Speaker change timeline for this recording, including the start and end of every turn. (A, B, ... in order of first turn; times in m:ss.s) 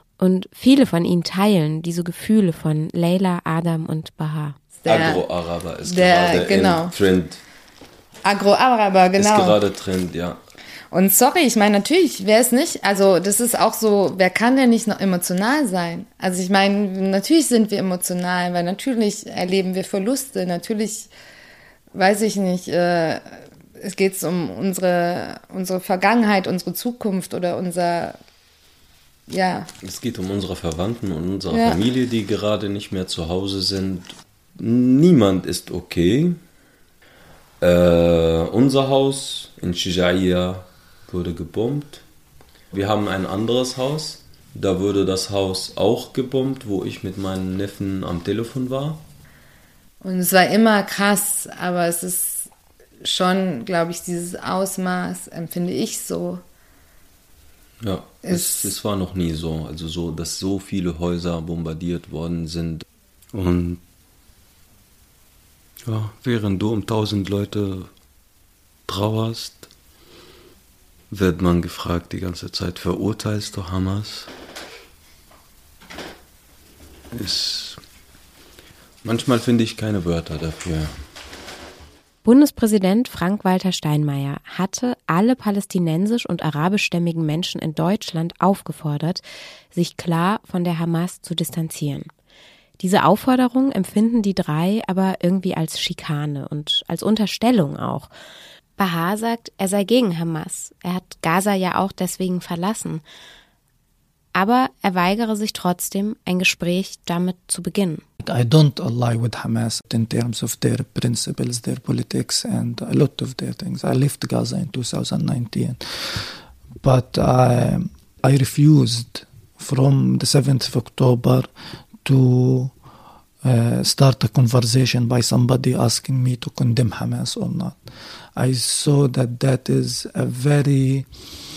0:00.2-0:04.6 A
0:04.8-0:05.3 B
0:04.9-0:07.4 C
0:05.8-0:07.0 B
0:08.2-0:09.6 B
0:09.2-0:10.4 C
0:10.9-0:21.1 B
0:21.9-0:28.2 B
0:29.3-0:29.7 B
0:29.8-0:36.4 C
0:31.5-0:31.8 B
0:37.6-0:42.0 C
0:42.7-0:49.0 C
0:50.0-0:52.5 B
0:53.0-0:56.4 B
0:57.8-1:03.8 C
0:58.2-0:58.8 B
1:05.8-1:07.9 C
1:08.9-1:09.7 C
1:11.1-1:14.3 C
1:17.1-1:17.8 C
1:19.0-1:21.0 C
1:22.2-1:32.1 A
1:32.8-1:38.1 A
1:38.8-1:43.0 A
1:44.4-1:48.0 A
1:48.2-2:01.5 D
2:02.0-2:02.7 D
2:03.4-2:07.8 D
2:08.4-2:11.1 D